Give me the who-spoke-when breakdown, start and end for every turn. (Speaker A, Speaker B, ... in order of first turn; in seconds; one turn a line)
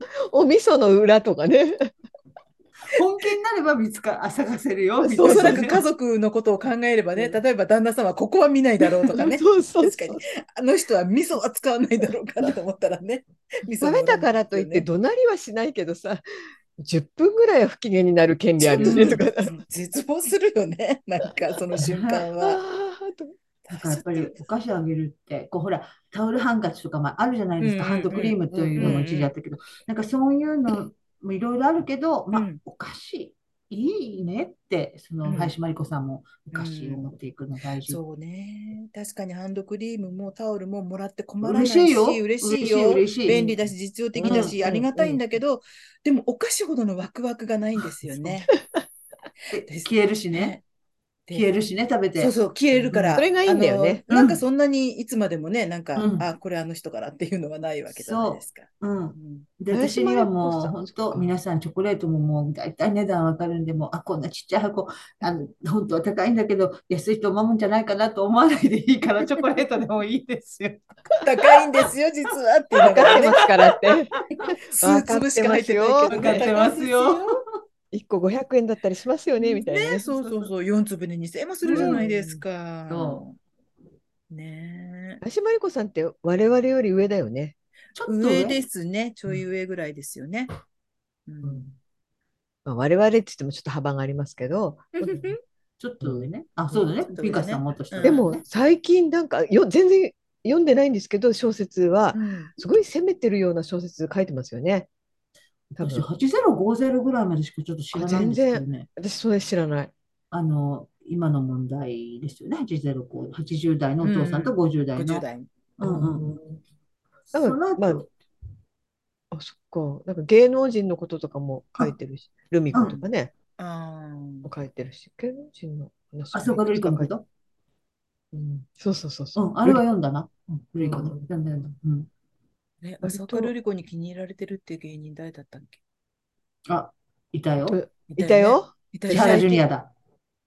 Speaker A: 0.2-1.9
Speaker B: 2.8-5.8
Speaker A: 5.0-5.7
Speaker C: 5.2-14.9
Speaker A: 9.1-10.2
Speaker A: 13.8-16.2
Speaker A: 16.8-19.5
Speaker C: 18.6-22.6
Speaker B: 18.8-19.2
Speaker B: 21.9-22.2
Speaker A: 22.4-23.4
Speaker C: 23.7-24.4
Speaker B: 23.7-38.0
Speaker C: 27.6-29.3
Speaker A: 28.5-29.1
Speaker C: 32.3-32.6
Speaker C: 35.2-35.6
Speaker C: 36.5-37.0
Speaker C: 37.9-48.5
Speaker B: 41.4-43.6
Speaker A: 44.2-45.2
Speaker B: 44.2-44.6
Speaker A: 48.2-48.9
Speaker B: 49.5-50.6
Speaker C: 49.7-50.6
Speaker B: 51.3-53.1
Speaker C: 52.2-59.5
Speaker A: 52.9-54.0
Speaker B: 54.1-54.4
Speaker B: 56.0-56.3
Speaker B: 57.9-70.9
Speaker A: 59.7-61.3
Speaker C: 71.2-73.5
Speaker A: 72.9-74.2
Speaker B: 73.0-74.5
Speaker C: 74.7-77.4
Speaker A: 74.8-76.5
Speaker B: 76.1-77.4
Speaker A: 77.9-80.1
Speaker C: 79.6-83.4
Speaker B: 80.1-80.5
Speaker B: 81.7-82.1
Speaker A: 81.7-82.4
Speaker B: 82.9-83.2
Speaker C: 84.3-85.2
Speaker A: 85.2-87.5
Speaker B: 88.0-88.6
Speaker C: 88.1-90.5
Speaker C: 91.3-91.7
Speaker A: 92.7-95.3
Speaker C: 95.0-95.4
Speaker B: 95.8-98.4
Speaker A: 96.0-96.8
Speaker C: 97.1-98.2
Speaker A: 98.0-104.9
Speaker C: 102.1-102.5
Speaker A: 105.7-106.1
Speaker B: 105.8-108.9
Speaker A: 107.9-109.9
Speaker B: 110.3-115.2
Speaker C: 114.0-115.5
Speaker B: 115.8-116.3
Speaker A: 115.8-116.6
Speaker B: 117.3-118.1
Speaker A: 117.3-118.0
Speaker A: 119.3-123.3
Speaker B: 122.7-123.0
Speaker C: 122.8-123.1
Speaker C: 123.6-124.5
Speaker A: 124.4-127.1
Speaker B: 126.3-127.2
Speaker A: 128.3-129.8
Speaker B: 129.4-132.1
Speaker A: 130.9-131.2
Speaker C: 132.8-135.8
Speaker A: 133.0-133.5
Speaker B: 136.7-137.8
Speaker A: 137.7-139.6
Speaker C: 138.1-139.6
Speaker B: 139.1-139.9